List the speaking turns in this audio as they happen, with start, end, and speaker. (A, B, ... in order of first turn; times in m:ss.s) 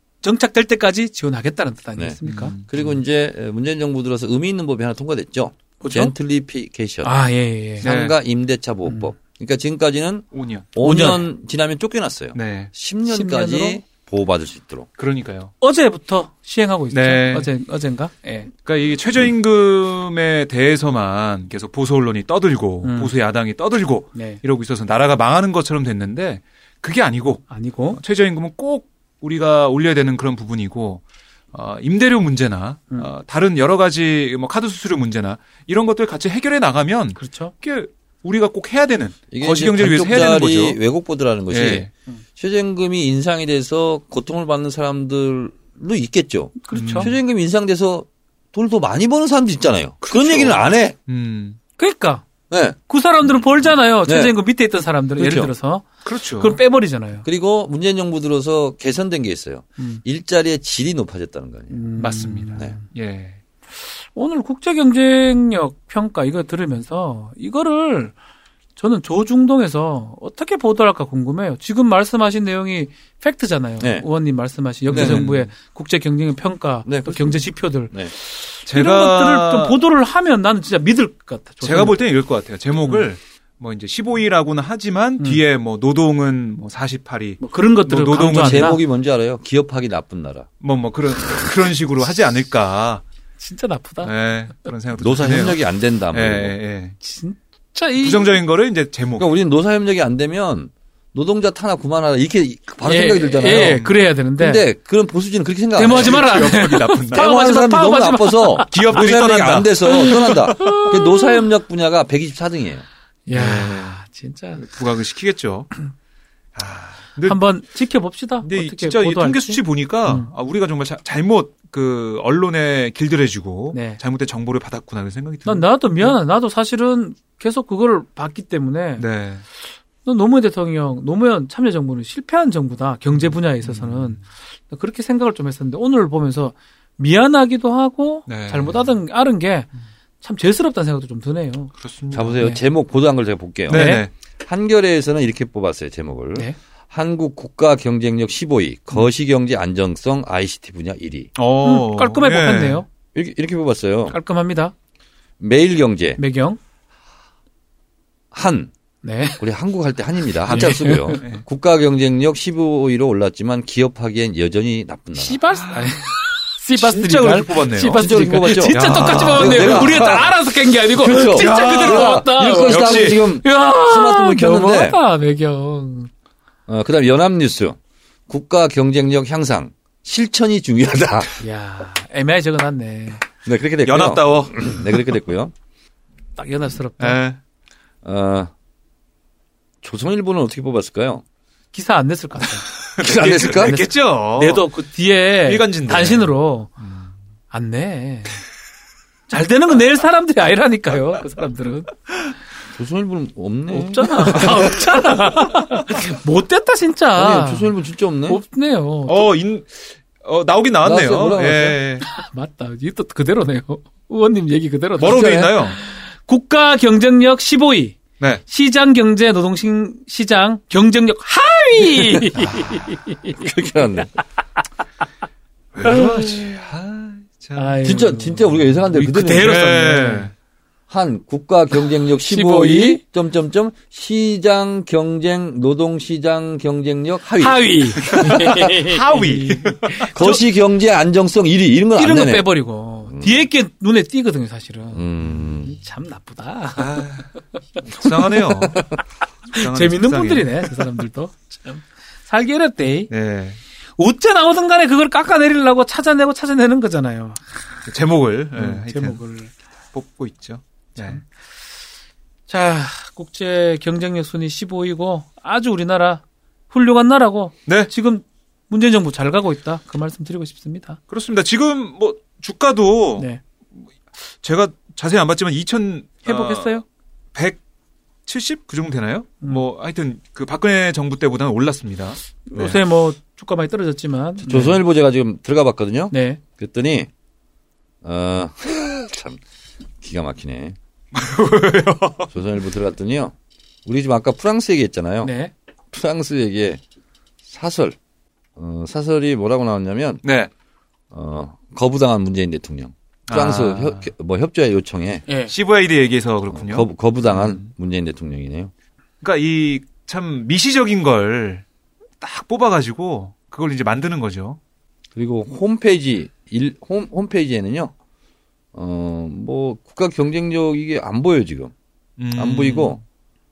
0:00.2-0:02.6 A
0:02.3-0:02.9 B
0:02.7-0:07.2 C
0:05.8-0:06.1 A
0:07.0-0:07.9 A
0:07.8-0:14.9 C
0:07.8-0:08.2 B
0:08.9-0:09.1 A
0:10.3-0:10.7 B
0:10.8-0:11.3 A
0:12.3-0:12.7 B
0:13.1-0:13.8 A
0:15.0-0:15.5 B
0:15.6-0:18.5 A
0:16.9-0:17.5 B
0:18.6-0:31.0 B
0:22.8-0:23.1 A
0:24.2-0:24.4 A
0:27.5-0:28.0 A
0:31.5-0:40.8 B
0:37.2-0:37.5 A
0:39.3-0:51.0 C
0:41.5-0:41.9 B
0:46.6-0:47.1 A
0:46.7-0:47.2 B
0:50.0-0:51.6 B
0:51.8-0:52.2 A
0:52.5-0:52.8 C
0:52.9-0:57.2 A
0:54.0-0:54.4 C
0:55.2-0:55.5 C
0:56.0-0:56.6 B
0:57.2-1:01.8 C
1:01.7-1:02.8 A
1:02.0-1:03.4 B
1:03.9-1:08.1 A
1:08.8-1:22.0 A
1:13.8-1:14.1 C
1:14.9-1:15.5 B
1:14.9-1:15.2 C
1:16.9-1:18.1 C
1:18.7-1:19.8 B
1:21.6-1:28.8 B
1:27.4-1:28.8 A
1:28.3-1:30.5 C
1:30.6-1:33.0 B
1:33.4-1:34.1 A
1:34.0-1:37.0 B
1:35.0-1:36.5 C
1:37.0-1:38.4 A
1:38.0-1:39.3 B
1:39.2-1:43.8 C
1:42.8-1:44.6 A
1:43.4-1:44.0 B
1:44.4-1:52.8 C
1:45.8-1:49.0 A
1:45.9-1:47.3 B
1:48.7-1:50.8 B
1:49.8-1:51.4 A
1:53.3-1:54.7 A
1:53.3-1:54.0 B
1:54.6-1:55.7 B
1:56.6-1:57.4 B
1:57.2-2:00.3 A
1:58.4-2:06.1 B
2:03.7-2:04.0 A
2:05.4-2:09.0 A
2:09.0-2:09.4 B
2:10.0-2:19.7 A
2:13.6-2:14.2 B
2:18.3-2:18.9 B
2:20.2-2:21.7 A
2:21.8-2:22.4 B
2:22.1-2:31.3 C
2:23.7-2:24.1 A
2:23.7-2:24.1 B
2:31.4-2:32.8 B
2:31.6-2:32.9 A
2:33.2-2:34.2 C
2:34.1-2:34.7 A
2:35.4-2:36.2 C
2:36.2-2:36.6 A
2:38.3-2:38.7 C
2:39.0-2:39.4 A
2:39.4-2:45.4 C
2:40.4-2:41.4 B
2:40.5-2:41.2 A
2:45.1-2:56.1 A
2:45.6-2:45.9 B
2:46.8-2:50.3 B
2:47.9-2:50.3 C
2:50.8-2:55.0 C
2:51.3-2:53.3 B
2:56.7-3:01.4 C
3:01.4-3:03.2 A
3:03.4-3:05.5 C
3:03.8-3:04.7 B
3:06.4-3:07.2 A
3:07.0-3:07.4 B
3:08.0-3:08.5 C
3:09.8-3:11.2 C
3:11.7-3:12.7 A
3:13.0-3:14.7 B
3:13.0-3:13.8 C
3:13.6-3:16.7 A
3:15.4-3:17.1 B
3:17.5-3:18.4 A
3:19.3-3:21.9 A
3:22.7-3:24.8 C
3:23.7-3:27.7 A
3:27.2-3:28.4 C
3:28.3-3:29.3 A
3:29.1-3:32.1 B
3:30.8-3:31.8 C
3:32.1-3:43.5 A
3:35.0-3:35.8 B
3:35.1-3:35.5 C
3:43.3-3:44.1 C
3:45.7-3:47.9 B
3:45.8-3:46.5 A
3:47.6-3:50.3 A
3:47.8-3:49.6 C
3:49.4-3:50.3 B
3:50.9-3:58.4 C
3:52.2-3:53.0 A
3:57.4-4:00.2 A
3:58.1-4:00.4 B
4:00.1-4:02.5 C
4:02.0-4:07.1 A
4:03.1-4:03.4 C
4:04.9-4:05.7 C
4:06.8-4:07.3 B
4:07.8-4:08.9 B
4:08.0-4:08.8 A
4:09.5-4:10.7 B
4:09.5-4:13.1 A
4:13.1-4:13.6 B
4:14.0-4:17.5 A
4:17.9-4:19.2 B
4:18.6-4:19.5 A
4:19.9-4:21.2 B
4:22.5-4:31.0 A
4:31.1-4:33.3 B
4:34.4-4:36.8 B
4:36.2-4:36.8 A
4:38.3-4:42.8 B
4:42.5-4:44.8 A
4:44.4-4:47.1 C
4:46.1-4:46.4 A
4:48.0-4:49.4 C
4:50.0-4:50.8 C
4:51.1-4:52.3 B
4:52.3-4:53.4 C
4:53.9-4:55.3 C
4:55.2-4:55.5 A
4:55.9-4:56.8 C
4:57.4-4:58.0 C
4:58.6-5:00.2 C
5:00.2-5:00.5 B
5:01.1-5:05.2 C
5:03.3-5:04.1 B
5:05.3-5:05.5 A
5:05.5-5:07.7 B
5:06.5-5:08.7 C
5:09.2-5:11.6 B
5:12.2-5:14.6 B
5:15.2-5:17.9 C
5:18.7-5:21.7 C
5:22.2-5:23.0 B
5:22.4-5:23.0 C